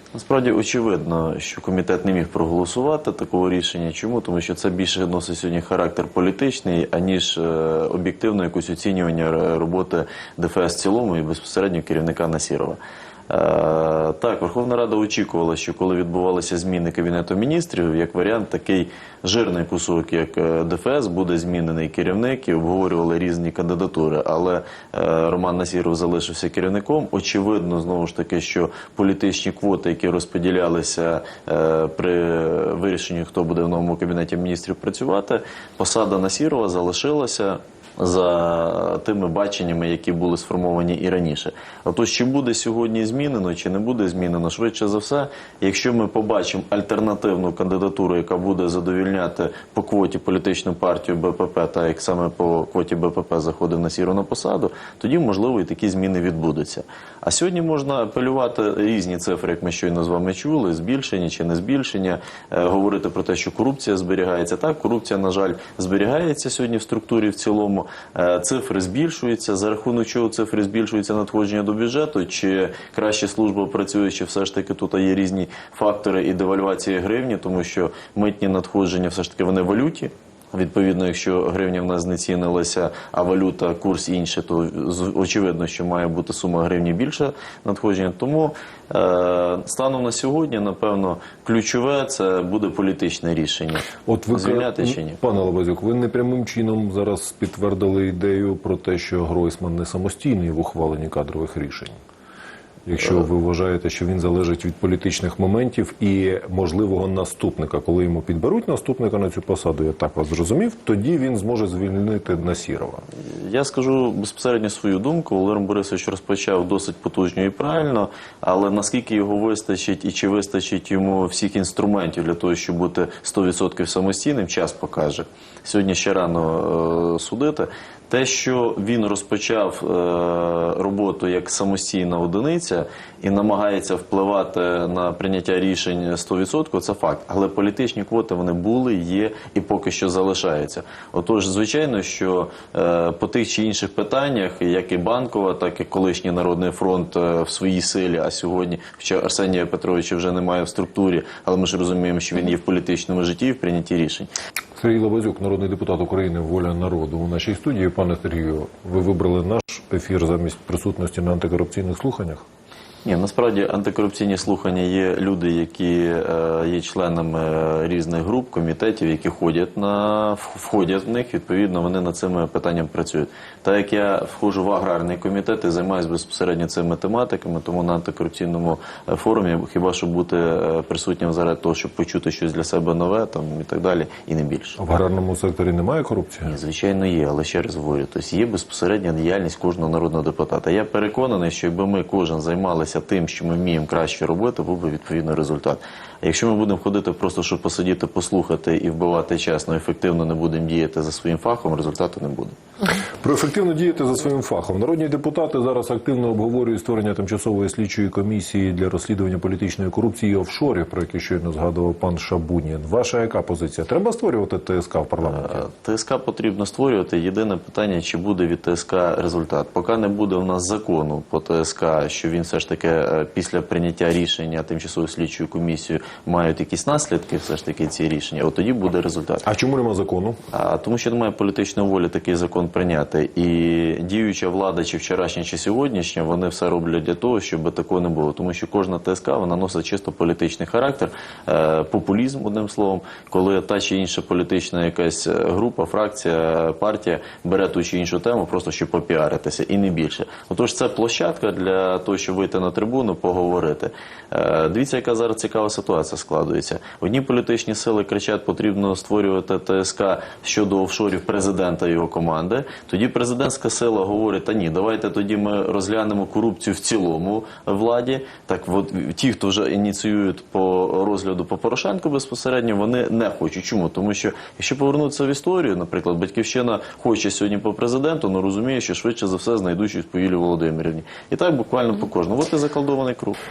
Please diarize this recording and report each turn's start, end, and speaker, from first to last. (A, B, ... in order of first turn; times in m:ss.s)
0:00.1-1:35.2 A
1:34.1-1:42.0 B
1:42.9-1:53.0 B
1:53.2-2:34.3 A
2:34.8-2:42.4 B
2:43.0-3:04.8 A
3:04.8-3:06.5 B
3:06.4-3:22.6 A
3:23.2-3:35.7 B
3:35.2-3:49.4 A
3:49.4-3:50.4 B
3:50.5-4:43.4 A